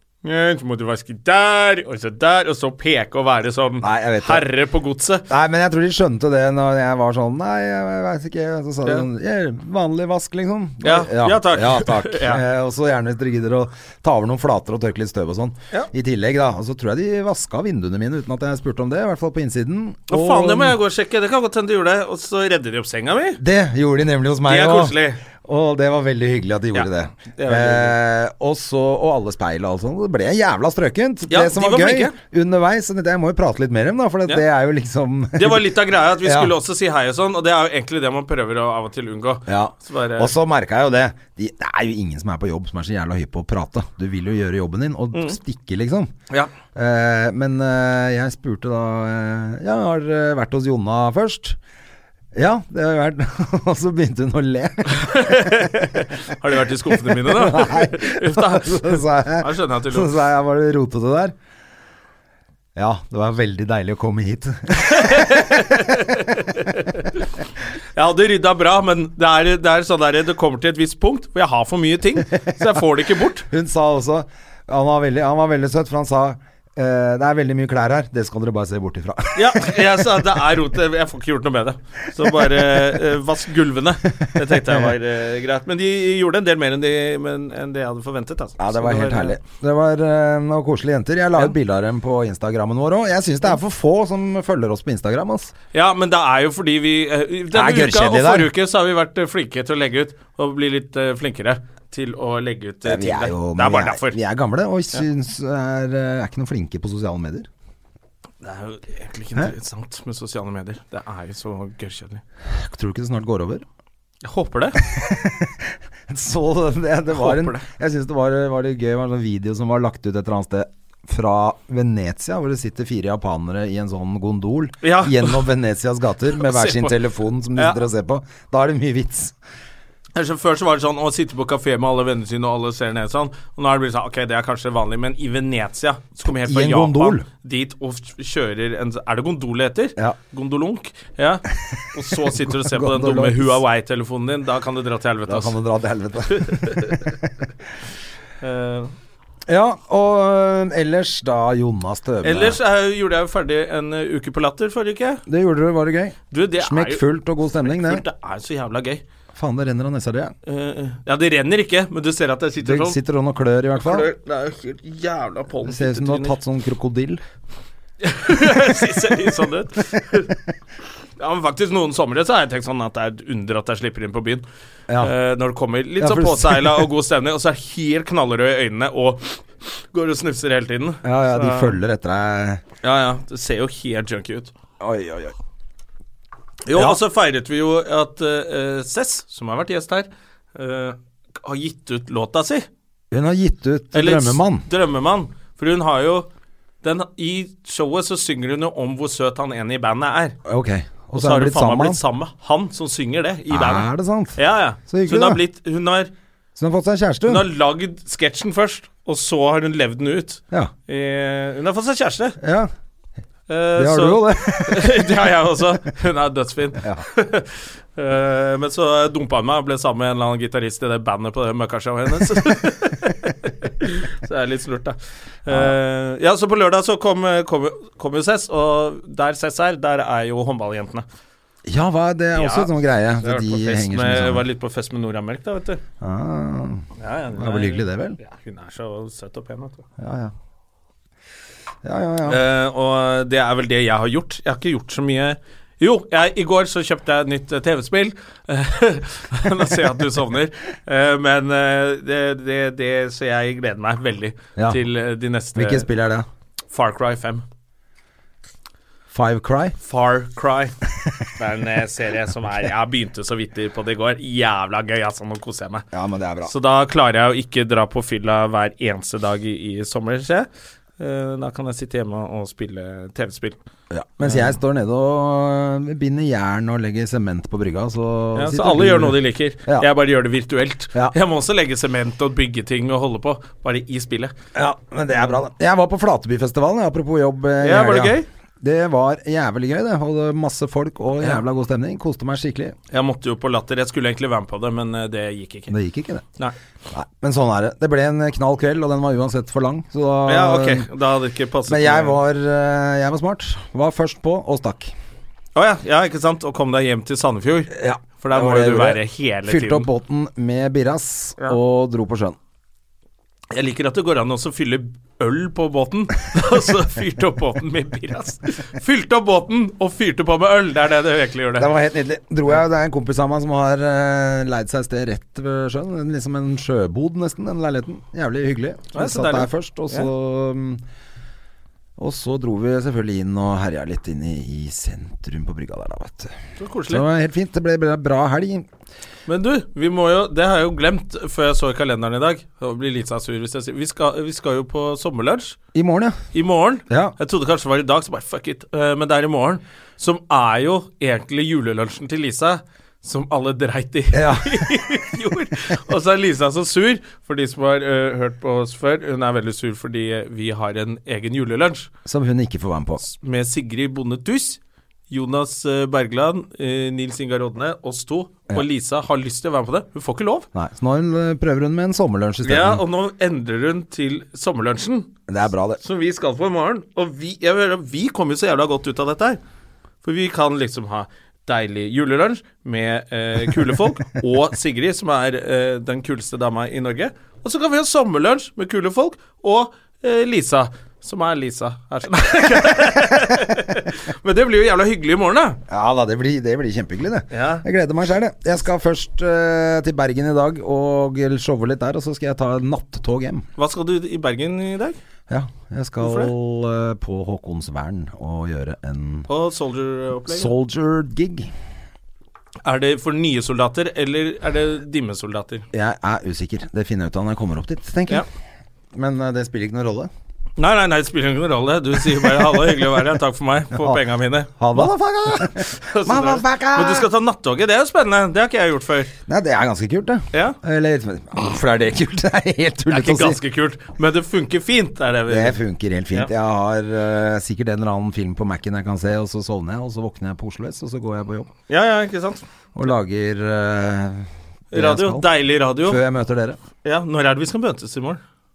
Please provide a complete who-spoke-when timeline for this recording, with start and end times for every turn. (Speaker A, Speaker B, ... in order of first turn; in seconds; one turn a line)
Speaker A: 0.2-5.2
Speaker B: 3.8-4.5
Speaker B: 5.3-20.8
Speaker A: 10.8-12.4
Speaker A: 20.1-23.4
Speaker B: 23.4-36.5
Speaker A: 24.4-25.2
Speaker A: 26.7-28.0
Speaker A: 31.3-32.1
Speaker A: 35.3-40.3
Speaker B: 39.5-46.1
Speaker B: 46.7-51.6
Speaker B: 52.3-55.6
Speaker A: 54.9-60.1
Speaker B: 57.0-61.3
Speaker B: 62.8-66.2
Speaker A: 64.8-67.3
Speaker A: 67.9-73.5
Speaker B: 73.5-79.8
Speaker A: 79.3-89.3
Speaker B: 84.4-84.9
Speaker B: 88.6-95.5
Speaker A: 95.7-104.2
Speaker B: 97.5-98.5
Speaker B: 102.8-107.5
Speaker A: 108.4-112.2
Speaker B: 112.5-113.6
Speaker A: 114.2-114.9
Speaker B: 114.8-129.3
Speaker A: 117.1-117.6
Speaker A: 124.8-125.4
Speaker A: 126.4-127.0
Speaker A: 127.5-127.8
Speaker A: 130.1-145.6
Speaker B: 136.2-137.2
Speaker B: 142.3-143.6
Speaker B: 145.3-147.3
Speaker A: 146.3-147.1
Speaker A: 148.4-148.9
Speaker B: 149.5-152.6
Speaker A: 152.2-155.2
Speaker B: 155.3-158.0
Speaker A: 156.3-157.0
Speaker A: 157.6-159.0
Speaker B: 159.3-160.3
Speaker A: 160.4-163.0
Speaker B: 162.6-164.1
Speaker A: 163.8-166.4
Speaker B: 165.6-167.2
Speaker A: 168.0-170.4
Speaker A: 171.2-174.4
Speaker A: 175.0-181.8
Speaker B: 176.0-176.9
Speaker B: 181.0-182.6
Speaker A: 182.8-184.5
Speaker B: 184.8-185.3
Speaker A: 186.7-192.7
Speaker B: 186.7-187.0
Speaker B: 193.1-194.7
Speaker A: 193.9-196.3
Speaker A: 196.8-200.3
Speaker B: 200.4-202.0
Speaker A: 201.1-206.1
Speaker B: 203.5-205.4
Speaker B: 206.6-207.4
Speaker A: 207.2-212.4
Speaker B: 212.4-212.7
Speaker A: 213.5-231.0
Speaker B: 213.8-215.3
Speaker B: 216.8-217.0
Speaker B: 225.5-225.7
Speaker B: 231.7-234.4
Speaker A: 232.3-235.8
Speaker B: 236.0-238.2
Speaker A: 237.0-239.8
Speaker B: 240.0-240.3
Speaker B: 241.8-242.4
Speaker A: 242.3-255.8
Speaker B: 255.5-256.2
Speaker A: 256.7-257.4
Speaker B: 259.1-259.8
Speaker A: 259.8-260.7
Speaker A: 261.4-265.8
Speaker B: 265.9-266.5
Speaker A: 266.4-270.5
Speaker A: 271.0-273.6
Speaker B: 273.9-279.9
Speaker A: 274.2-274.5
Speaker A: 278.3-284.3
Speaker B: 284.5-292.8
Speaker A: 287.6-288.3
Speaker A: 292.9-295.7
Speaker B: 295.7-296.2
Speaker B: 296.9-300.9
Speaker A: 300.3-302.2
Speaker B: 301.7-304.9
Speaker A: 305.6-309.9
Speaker B: 307.7-312.4
Speaker A: 313.5-321.7
Speaker B: 321.6-330.8
Speaker A: 328.9-330.1
Speaker B: 332.0-336.3
Speaker A: 336.6-337.1
Speaker B: 336.9-338.7
Speaker A: 339.3-345.6
Speaker B: 345.7-346.2
Speaker A: 346.3-361.9
Speaker B: 346.9-347.1
Speaker B: 354.1-354.8
Speaker B: 362.0-363.0
Speaker A: 363.0-370.5
Speaker B: 370.5-372.8
Speaker A: 372.4-375.1
Speaker B: 375.3-375.8
Speaker A: 375.8-379.4
Speaker A: 380.0-395.6
Speaker B: 395.7-403.4
Speaker A: 397.3-397.6
Speaker A: 403.6-405.0
Speaker B: 405.3-409.3
Speaker A: 406.0-406.3
Speaker A: 409.3-410.5
Speaker B: 410.3-411.5
Speaker A: 412.6-415.6
Speaker B: 415.7-418.2
Speaker B: 418.9-420.1
Speaker A: 420.6-429.1
Speaker B: 423.7-424.0
Speaker B: 424.6-427.1
Speaker B: 429.3-433.4
Speaker A: 430.3-430.6
Speaker A: 432.9-435.6
Speaker B: 435.3-441.5
Speaker A: 441.7-442.4
Speaker B: 442.8-445.3
Speaker A: 444.7-446.0
Speaker B: 445.8-446.6
Speaker A: 446.8-448.2